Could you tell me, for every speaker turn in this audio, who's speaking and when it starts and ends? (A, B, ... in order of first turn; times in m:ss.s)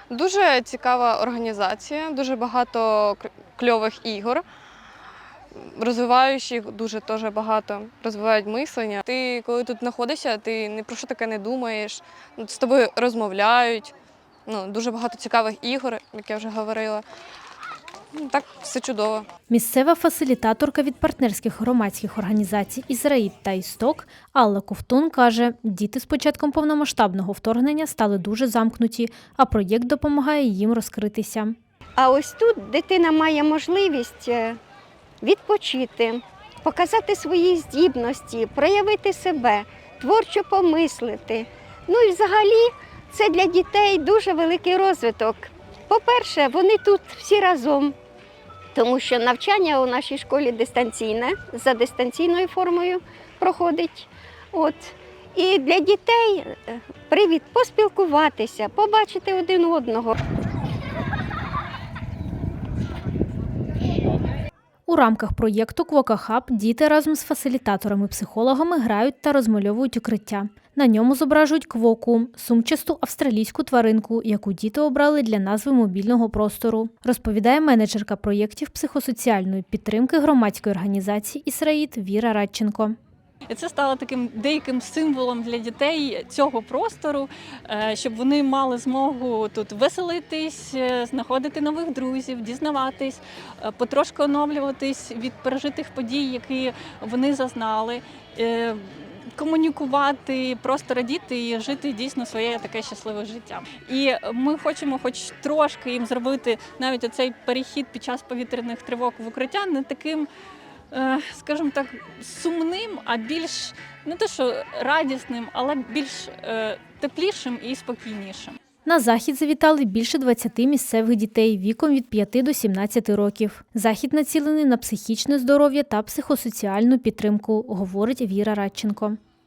0:00.1-0:04.4 A
0:05.6-0:13.9 A
0:14.5-0:17.0 A
0:18.1-0:19.3 A
0:19.5-0:31.6 B
0:32.0-0:34.6 C
0:35.2-0:48.0 C
0:48.7-1:00.2 C
1:04.9-1:23.0 B
1:23.5-1:50.3 D
1:50.9-1:58.6 D
1:58.8-2:09.2 B